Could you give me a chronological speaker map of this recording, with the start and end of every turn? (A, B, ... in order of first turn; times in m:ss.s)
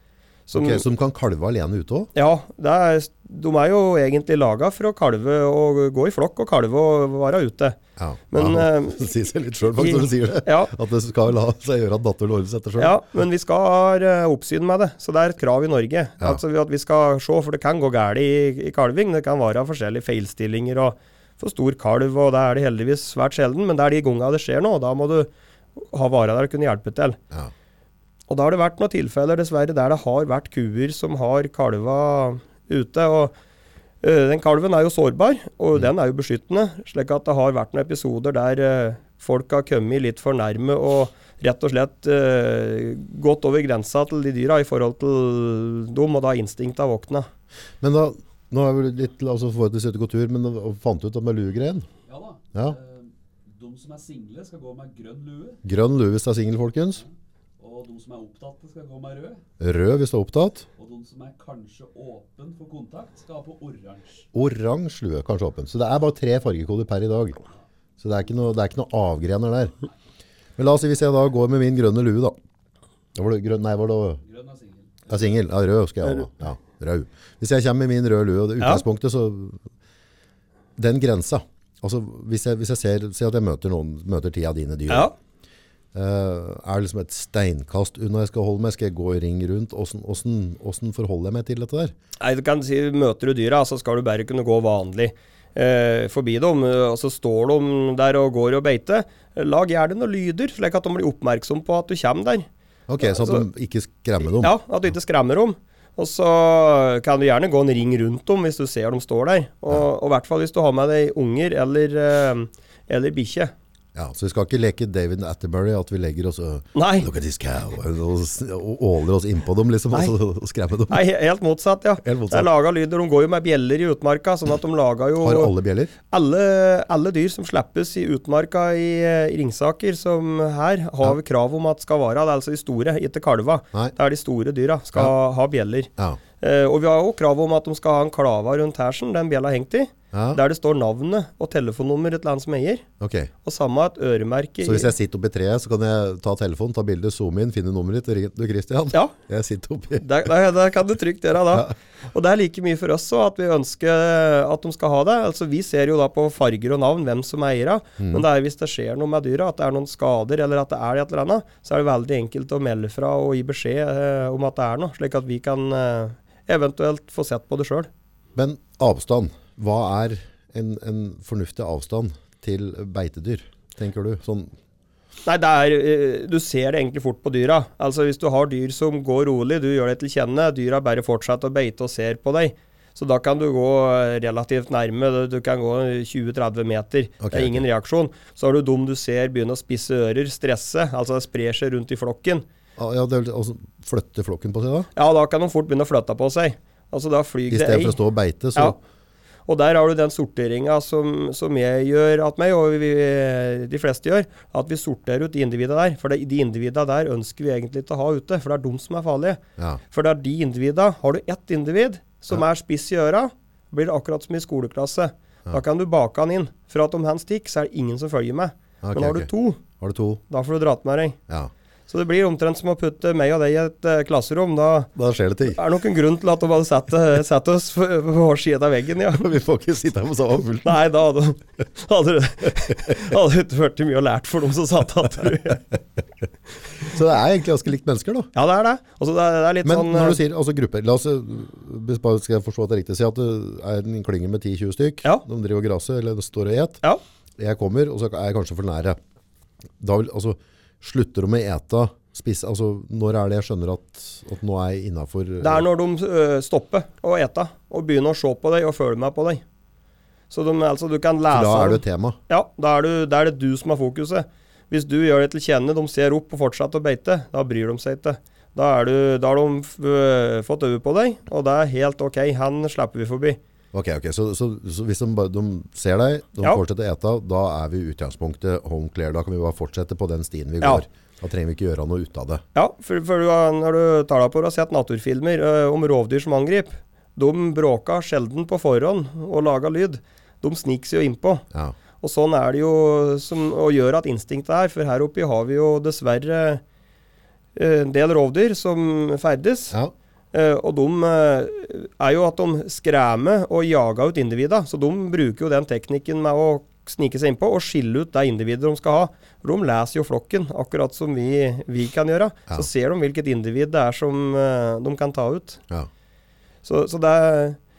0:00.5-0:00.8 A
0:00.6-0:02.1 B
0:02.2-0:07.8 A
0:08.0-0:13.0 B
0:08.3-0:09.1 A
0:09.8-0:10.7 A
0:12.8-0:27.2 A
0:28.3-0:33.3 A
0:34.0-0:47.3 A
0:47.8-0:51.9 B
0:52.1-0:55.6 C
0:55.6-0:57.0 B
0:57.6-0:59.4 C
0:59.6-1:00.7 B
1:00.8-1:04.3 C
1:04.3-1:07.4 B
1:08.0-1:09.8 B
1:10.6-1:12.4 B
1:13.2-1:14.2 B
1:14.2-1:15.1 C
1:15.1-1:19.6 B
1:20.8-1:25.1 B
1:25.9-1:31.9 B
1:32.2-1:42.5 A
1:42.9-1:44.6 B
1:43.0-1:43.4 A
1:44.4-1:53.5 A
1:54.0-2:01.0 B
1:56.8-1:57.1 A
2:00.9-2:05.5 A
2:02.0-2:02.5 B
2:05.2-2:05.9 B
2:06.1-2:22.8 A
2:20.1-2:20.4 B
2:23.0-2:23.3 B
2:23.4-2:24.9 A
2:24.6-2:30.3 B
2:30.0-2:47.9 A
2:38.0-2:38.2 B
2:48.4-2:54.5 B
2:55.2-3:12.5 A
3:07.2-3:07.6 B
3:12.8-3:14.9 B
3:15.0-3:18.0 A
3:17.5-3:18.8 B
3:19.5-3:39.6 A
3:38.8-3:40.2 B
3:40.3-3:41.2 A
3:41.9-3:44.9 A
3:45.0-3:45.6 B
3:45.5-3:49.3 A
3:49.1-3:50.8 B
3:50.6-3:55.6 A
3:56.8-3:58.3 B
3:58.4-4:00.2 A
3:59.6-4:06.8 B
4:07.4-4:09.0 B
4:09.8-4:15.6 B
4:15.4-4:19.4 A
4:20.3-4:33.4 A
4:21.3-4:22.2 B
4:33.7-4:42.4 B
4:42.6-4:51.4 A
4:52.0-4:56.6 A
4:57.6-4:59.8 A
5:00.3-5:15.6 A
5:16.6-5:17.6 A